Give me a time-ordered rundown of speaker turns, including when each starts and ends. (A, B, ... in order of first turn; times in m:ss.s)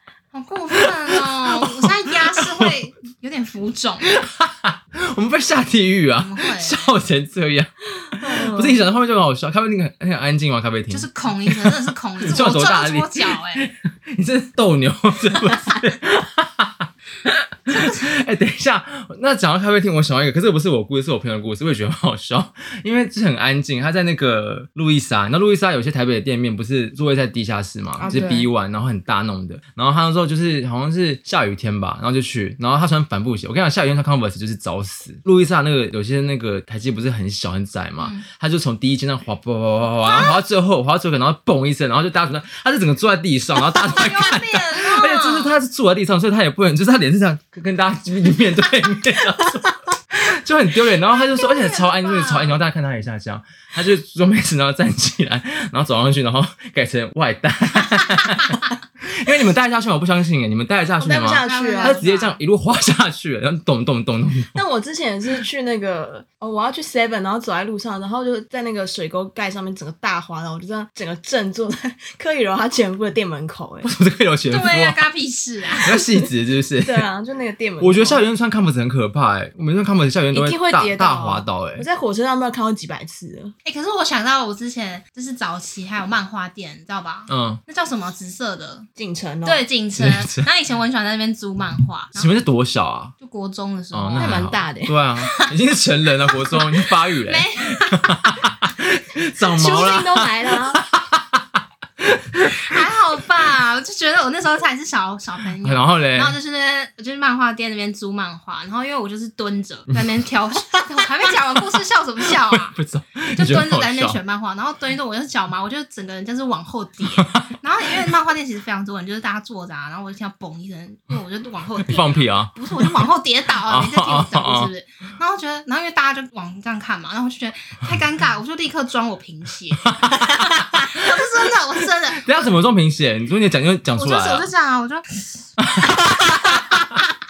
0:00.3-0:04.1 A
0:00.7-0:02.7 B
0:04.0-1:04.6 B
0:06.2-0:07.0 A
0:08.2-0:08.8 C
0:10.9-0:13.7 A
0:17.7-0:18.2 A
0:28.0-0:28.5 C
0:38.0-0:38.2 A
0:40.0-0:40.4 A
0:43.6-0:45.6 A
0:51.1-0:52.6 A
1:01.0-1:02.0 C
1:01.4-1:02.4 A
1:04.6-1:13.9 C
1:13.8-1:15.1 B
1:14.5-1:16.0 A
1:15.8-1:17.1 B
1:16.0-1:18.2 C
1:17.8-1:21.9 B
1:20.3-1:23.5 C
1:23.6-1:28.9 A
1:27.3-1:27.6 B
1:29.0-1:29.6 C
1:29.4-1:32.3 A
1:30.0-1:30.5 B
1:32.2-1:33.1 B
1:33.2-1:34.5 A
1:33.9-1:42.8 B
1:34.2-1:35.0 C
1:35.2-1:35.5 A
1:36.3-1:38.5 A
1:39.4-1:40.8 C
1:42.5-1:52.8 A
1:45.6-1:46.4 B
1:51.0-1:54.2 B
1:53.3-2:12.5 A
1:57.2-1:57.5 B
2:01.8-2:03.0 B
2:03.7-2:04.7 B
2:09.9-2:11.2 B
2:12.2-2:14.5 B
2:14.0-2:16.9 A
2:15.6-2:17.0 B